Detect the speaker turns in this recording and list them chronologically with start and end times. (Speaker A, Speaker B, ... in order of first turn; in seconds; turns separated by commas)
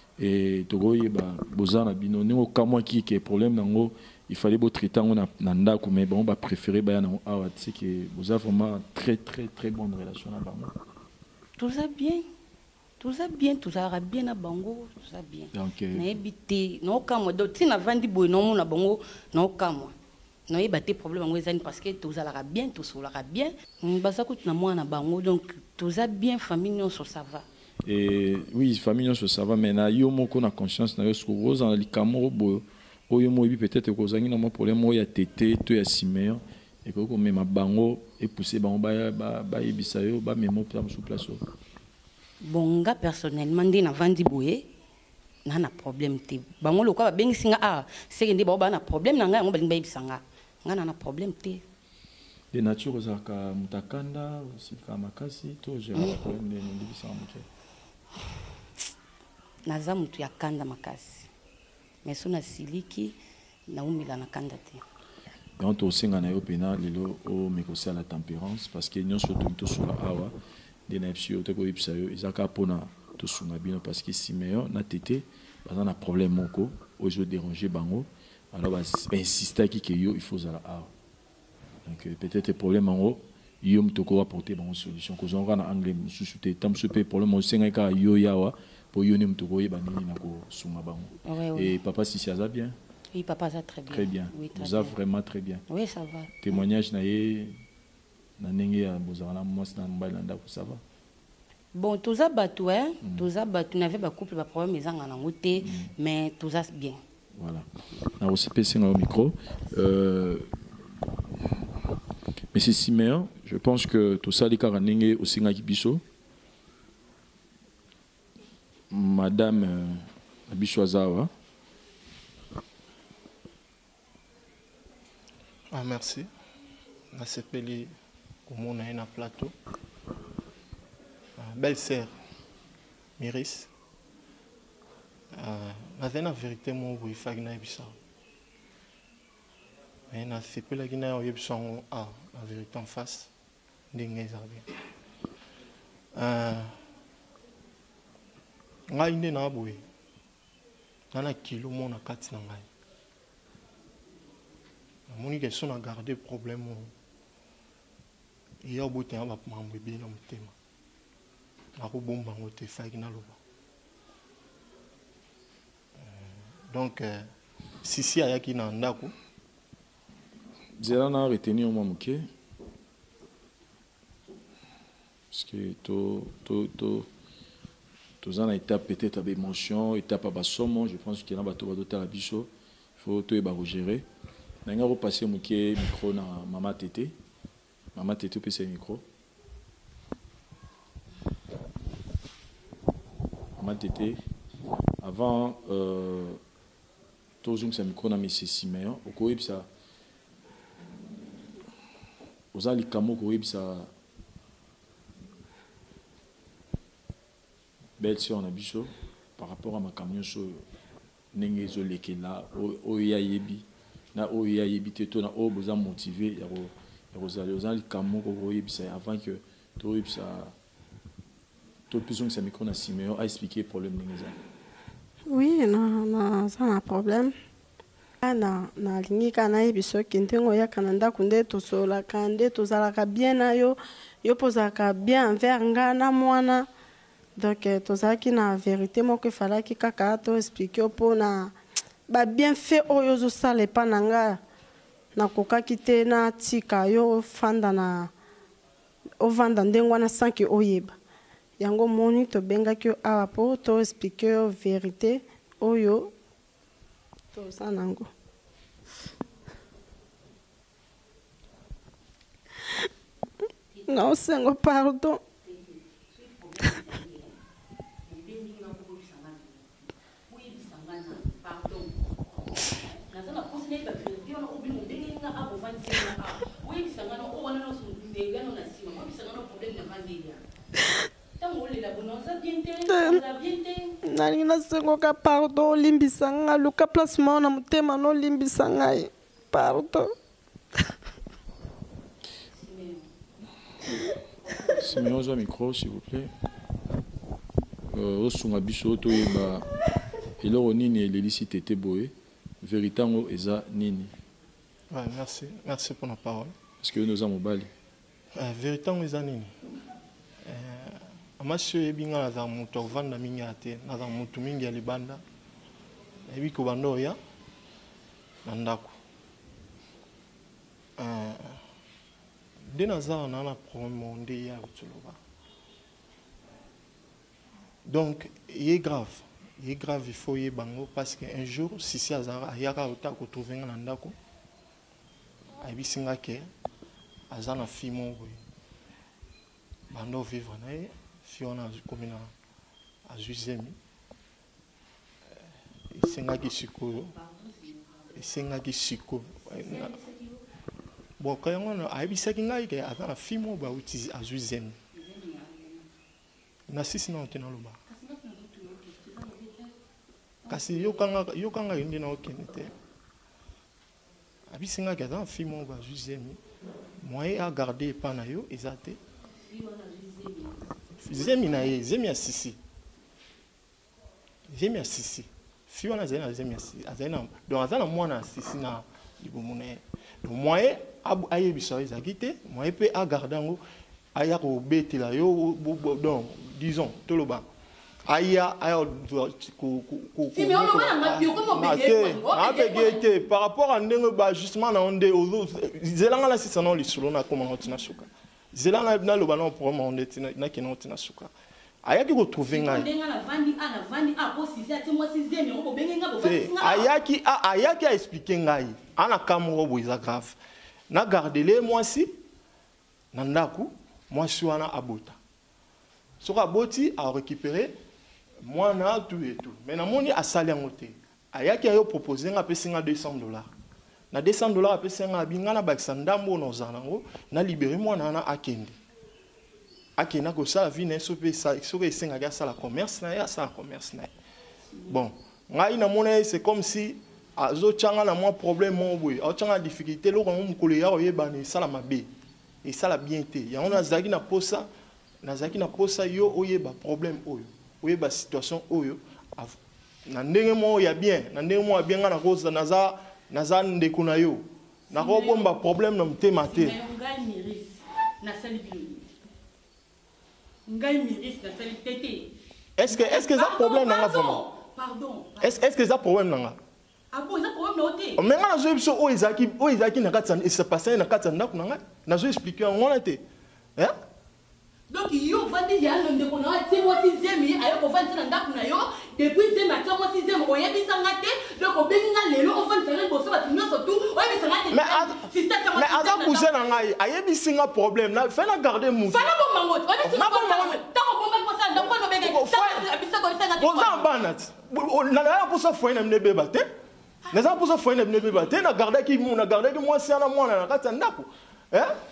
Speaker A: 0.2-10.7, Speaker B: 11.6-12.2, Speaker B: 13.0-19.9, Speaker A: 15.5-16.1, Speaker B: 20.5-27.5, Speaker A: 27.9-41.4, Speaker B: 42.4-44.7, Speaker B: 45.5-51.6, Speaker A: 52.5-57.5, Speaker B: 59.7-61.3, Speaker B: 62.0-63.2, Speaker B: 63.7-64.8, Speaker A: 65.6-70.3, Speaker A: 70.9-80.9, Speaker A: 81.9-92.8, Speaker B: 91.3-91.8, Speaker B: 93.1-94.9, Speaker A: 93.9-95.6, Speaker B: 95.7-96.6, Speaker A: 96.4-97.5, Speaker A: 98.4-100.8, Speaker B: 101.7-107.0, Speaker A: 103.0-103.3, Speaker A: 105.6-105.9, Speaker A: 107.4-107.7, Speaker A: 108.2-110.5, Speaker A: 112.5-116.0, Speaker A: 118.9-121.3, Speaker C: 125.7-126.3, Speaker C: 127.1-127.9, Speaker C: 128.5-129.5, Speaker C: 131.4-132.1, Speaker C: 133.2-133.7, Speaker C: 135.4-137.9, Speaker C: 140.1-143.3, Speaker C: 143.9-144.7, Speaker C: 146.2-146.7, Speaker C: 148.9-149.8, Speaker C: 151.1-152.7, Speaker C: 155.1-156.9, Speaker C: 158.6-160.5, Speaker C: 161.8-163.4, Speaker C: 166.0-167.2, Speaker C: 167.8-169.1, Speaker A: 170.8-172.2, Speaker A: 175.3-177.1, Speaker A: 178.2-184.1, Speaker A: 184.7-187.1, Speaker A: 187.9-189.0, Speaker A: 193.6-194.2, Speaker A: 195.0-196.4, Speaker A: 197.4-199.7, Speaker A: 202.5-203.9, Speaker A: 208.0-210.6, Speaker A: 211.3-220.5, Speaker A: 221.9-224.4, Speaker D: 225.3-227.3, Speaker D: 228.2-236.7, Speaker D: 237.4-241.5, Speaker D: 242.1-244.4, Speaker D: 245.2-248.1, Speaker D: 249.2-250.9, Speaker D: 251.6-256.1, Speaker D: 257.3-258.1, Speaker D: 263.9-265.2, Speaker E: 266.1-267.3, Speaker E: 268.1-271.9, Speaker E: 272.5-280.4, Speaker E: 281.4-284.0, Speaker D: 282.9-283.2, Speaker D: 284.1-290.1, Speaker A: 294.8-296.3, Speaker A: 297.9-299.7, Speaker A: 300.4-304.1, Speaker C: 304.9-306.5, Speaker A: 306.8-307.7, Speaker C: 308.4-309.5, Speaker C: 310.5-315.2, Speaker C: 316.3-317.2, Speaker C: 318.5-318.9, Speaker C: 321.0-321.6, Speaker C: 322.7-325.2, Speaker C: 327.9-334.2, Speaker C: 335.6-336.5, Speaker C: 337.3-338.4, Speaker C: 339.9-342.3, Speaker C: 343.1-343.8, Speaker C: 345.9-347.1, Speaker C: 348.2-349.9, Speaker E: 349.5-350.4, Speaker C: 351.2-354.8, Speaker E: 355.0-355.8, Speaker C: 356.7-357.8, Speaker E: 357.9-359.7, Speaker E: 360.4-361.1, Speaker C: 360.5-362.7, Speaker C: 364.5-366.4, Speaker C: 367.0-369.0, Speaker E: 369.4-371.5, Speaker C: 371.0-372.6, Speaker C: 374.5-383.6, Speaker C: 384.2-387.4, Speaker C: 388.1-401.3, Speaker E: 390.4-393.1, Speaker C: 401.9-402.9, Speaker E: 402.5-406.9, Speaker C: 406.2-410.4, Speaker C: 410.9-412.1, Speaker C: 413.1-415.2, Speaker C: 416.2-417.7, Speaker C: 418.4-423.5, Speaker C: 424.1-428.8, Speaker C: 430.0-434.1, Speaker C: 434.9-442.1, Speaker C: 442.6-444.7, Speaker C: 445.2-456.8, Speaker E: 454.9-455.5, Speaker E: 456.4-459.1, Speaker E: 460.7-462.3, Speaker C: 462.8-464.4, Speaker E: 462.9-465.6, Speaker C: 465.4-466.6, Speaker E: 467.1-468.2, Speaker C: 468.2-473.2, Speaker E: 474.9-486.9, Speaker C: 484.7-489.3, Speaker E: 489.1-494.1, Speaker C: 490.0-490.8, Speaker C: 491.8-492.9, Speaker C: 493.6-496.6, Speaker C: 497.3-501.9